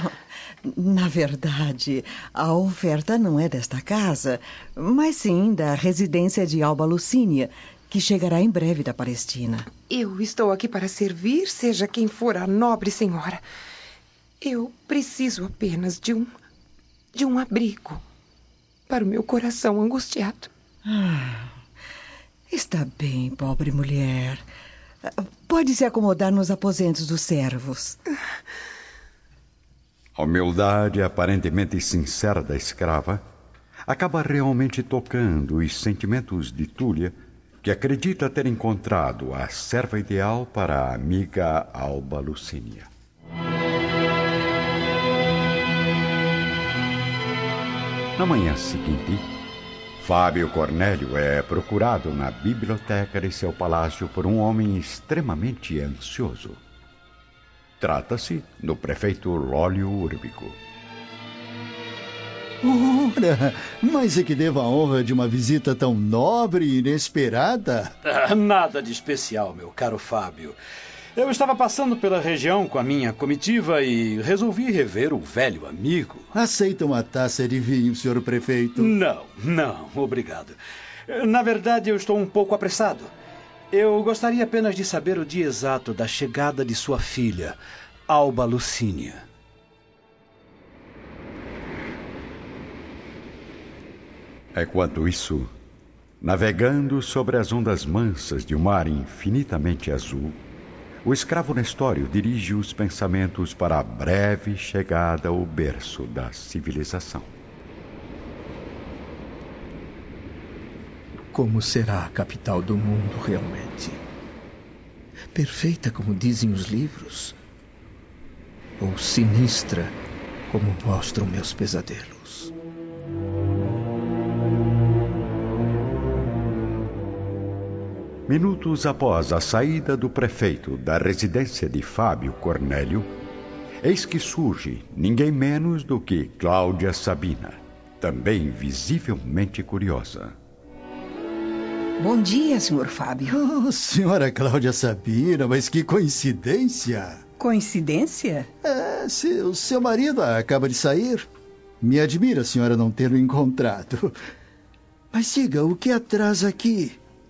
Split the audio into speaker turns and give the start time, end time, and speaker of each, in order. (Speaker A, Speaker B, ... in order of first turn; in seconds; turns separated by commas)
Speaker A: 0.7-9.7, Speaker B: 9.9-13.4, Speaker B: 14.4-16.3, Speaker B: 17.1-18.0, Speaker B: 18.9-20.5, Speaker A: 20.9-21.5, Speaker A: 22.5-24.4, Speaker A: 25.5-27.9, Speaker C: 30.2-33.2, Speaker C: 33.9-42.9, Speaker C: 48.2-49.3, Speaker C: 50.0-56.6, Speaker C: 57.8-60.6, Speaker D: 62.6-67.9, Speaker E: 68.0-70.5, Speaker E: 71.2-76.2, Speaker D: 76.3-78.9, Speaker E: 78.8-80.5, Speaker E: 81.1-83.1, Speaker E: 83.7-87.6, Speaker E: 88.1-89.2, Speaker C: 94.5-95.5, Speaker C: 96.2-100.4, Speaker C: 101.0-107.3, Speaker F: 111.3-114.0, Speaker F: 115.3-117.3, Speaker F: 118.8-120.0, Speaker F: 120.5-122.5, Speaker C: 128.3-133.1, Speaker C: 133.8-140.3, Speaker G: 142.0-143.4, Speaker D: 143.3-147.2, Speaker G: 147.4-148.5, Speaker D: 148.6-151.3, Speaker D: 151.8-154.2, Speaker D: 155.1-157.0